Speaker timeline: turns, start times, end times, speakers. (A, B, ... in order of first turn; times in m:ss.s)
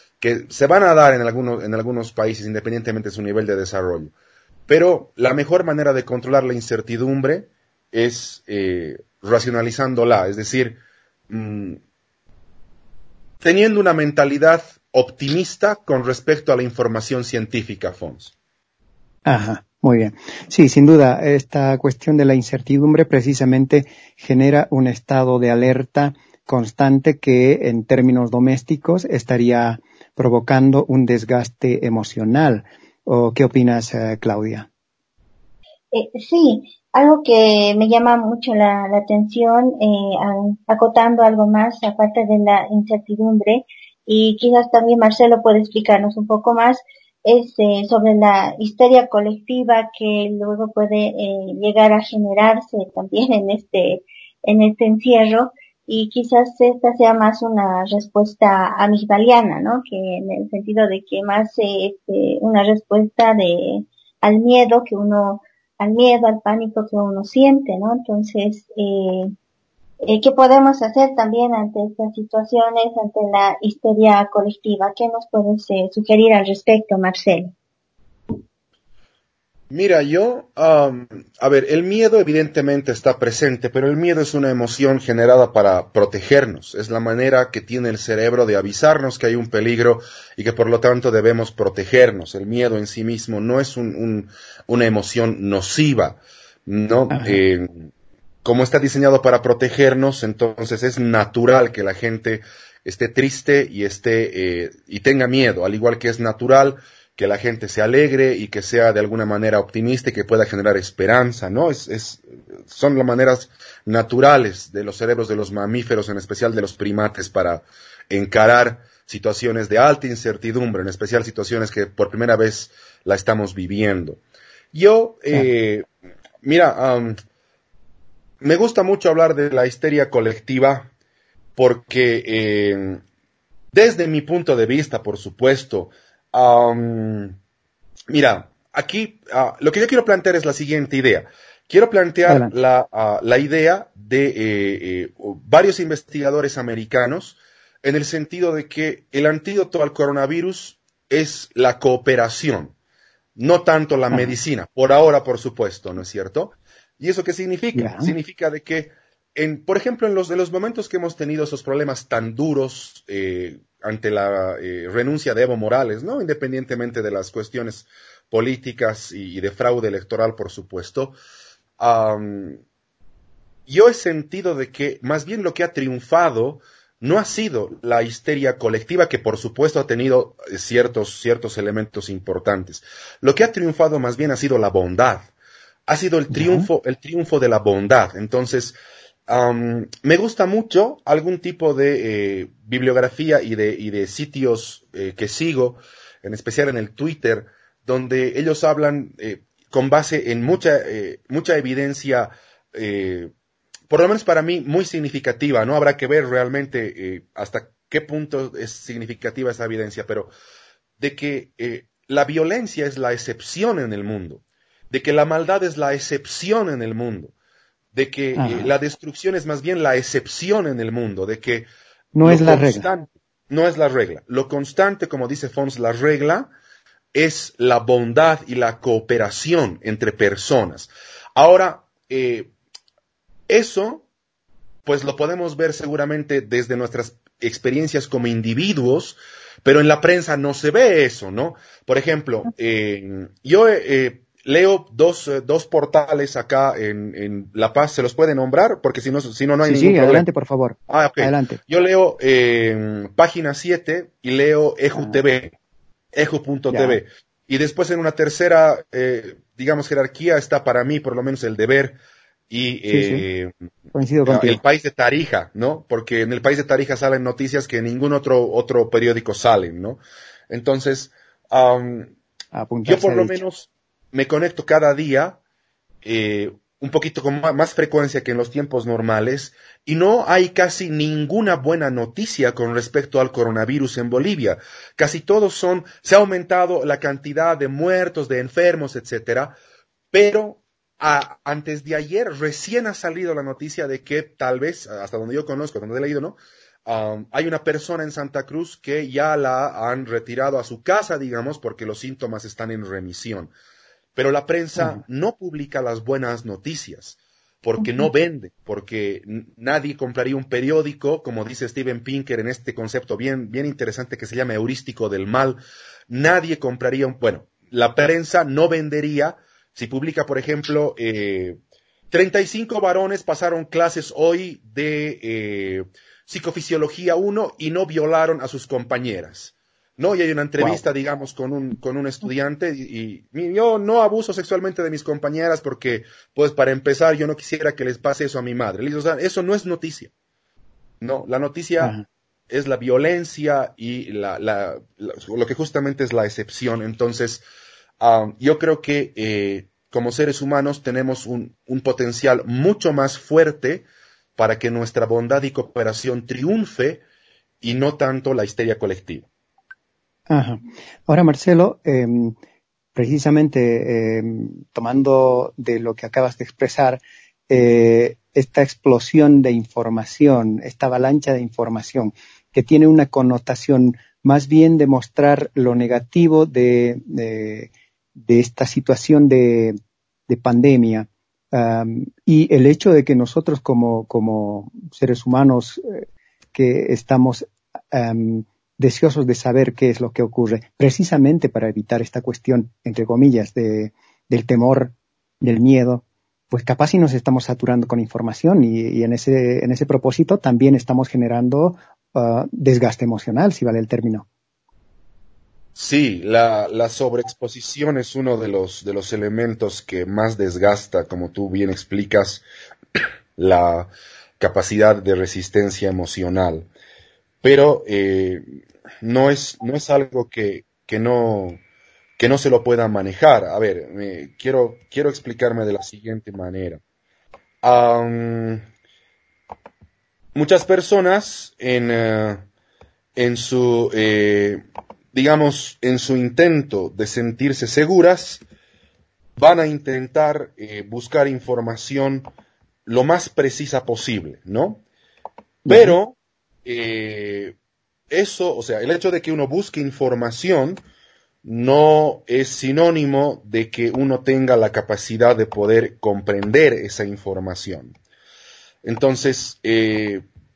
0:00.2-0:04.1 A
0:04.7-0:10.8 A
0:11.3-0:11.8 A
0:13.4-0:18.3 A
0:19.2-0:34.7 B
0:35.9-1:09.3 C
1:10.0-1:17.5 C
1:19.7-1:37.9 A
1:37.1-1:37.4 B
1:38.4-2:04.2 A
2:04.7-2:05.9 A
2:06.4-2:07.2 A
2:08.4-2:10.9 A
2:11.6-2:13.0 A
2:13.7-2:17.3 A
2:18.1-2:32.7 A
2:22.3-2:22.5 B
2:33.4-2:51.2 A
2:34.1-2:34.4 B
2:37.7-2:38.1 B
2:51.8-2:52.6 A
2:53.7-3:05.3 A
3:05.9-3:08.8 A
3:06.3-3:06.7 B
3:09.3-3:23.3 A
3:23.9-3:30.3 A
3:31.0-3:37.3 A
3:37.9-3:41.6 A
3:38.4-3:38.7 B
3:42.1-3:42.9 B
3:42.2-3:46.5 A
3:47.1-3:52.5 A
3:53.5-3:54.0 A
3:54.8-4:10.2 A
4:09.6-4:11.6 B
4:10.9-4:15.5 A
4:16.1-4:22.0 A
4:16.7-4:17.0 B
4:22.5-4:23.5 A
4:22.9-4:23.2 B
4:23.9-4:24.6 B
4:24.2-4:32.1 A
4:32.5-4:33.4 B
4:32.8-4:35.4 A
4:36.0-4:49.5 A
4:50.1-5:03.5 A
5:04.1-5:15.6 A
5:16.1-5:21.6 A
5:22.1-5:40.1 A
5:41.0-5:42.0 A
5:42.5-5:47.4 A
5:48.0-5:57.0 A
5:57.6-5:59.2 A
6:00.3-6:02.3 B
6:02.9-6:17.7 B
6:18.2-6:19.8 B
6:20.3-6:44.3 B
6:45.7-6:52.4 A
6:53.4-6:56.7 A
6:57.4-6:58.4 A
6:59.0-7:01.6 A
7:02.2-7:06.8 A
7:07.6-7:08.6 A
7:10.3-7:12.4 A
7:13.2-7:14.6 A
7:15.1-7:18.4 A
7:19.4-7:22.3 A
7:22.8-7:24.8 A
7:25.6-7:26.0 B
7:25.7-7:27.5 A
7:28.1-7:30.8 A
7:31.4-7:37.9 A
7:38.8-7:40.2 A